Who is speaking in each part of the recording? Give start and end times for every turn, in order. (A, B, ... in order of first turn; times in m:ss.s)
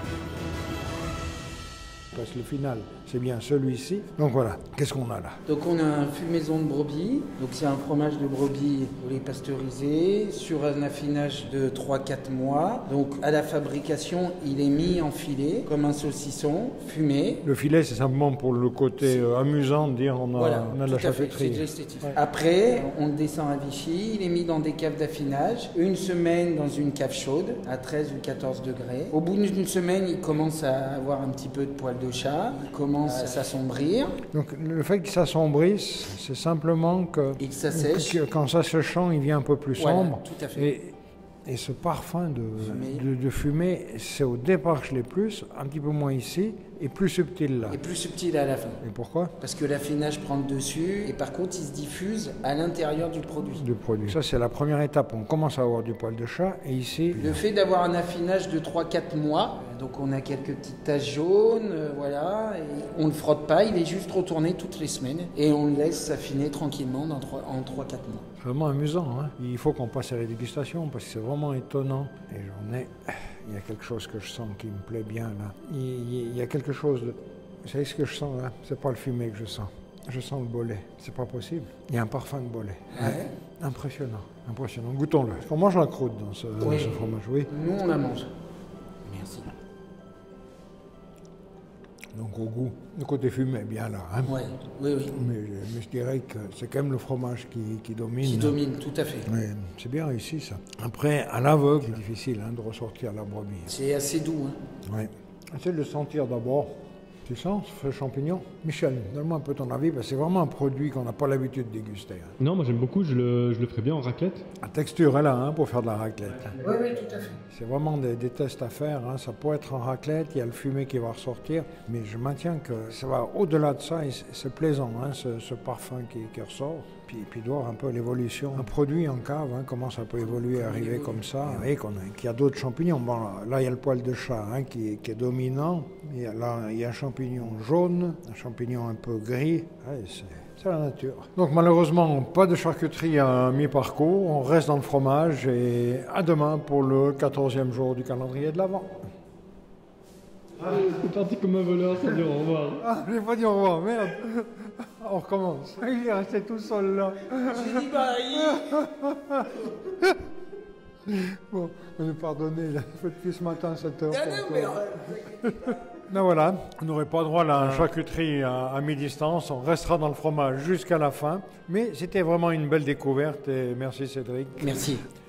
0:02.1-0:05.4 A
0:05.5-0:17.4 B
0:17.4-0:22.1 A
0:20.4-0:34.2 B
0:34.3-0:47.8 A
0:37.4-0:38.2 B
0:39.8-0:40.7 B
0:42.6-0:43.0 B
0:47.7-0:48.8 B
0:48.8-0:49.3 A
0:49.4-0:53.6 B
0:53.5-0:57.4 A
0:57.1-1:08.2 B
1:08.4-1:27.5 A
1:22.9-1:23.3 B
1:26.6-1:27.0 B
1:27.5-1:28.3 B
1:29.1-1:29.5 B
1:32.1-1:34.4 A
1:34.3-1:35.2 B
1:35.1-1:38.6 A
1:38.2-1:39.3 B
1:39.2-1:43.7 A
1:43.7-1:44.6 B
1:44.8-1:52.4 A
1:52.4-1:54.4 C
1:54.6-2:29.1 A
1:56.8-1:57.1 B
2:10.2-2:11.6 B
2:30.6-2:32.8 C
2:32.8-2:40.2 A
2:37.5-2:38.8 B
2:41.1-2:55.0 A
2:44.1-2:45.5 B
2:54.6-2:55.0 B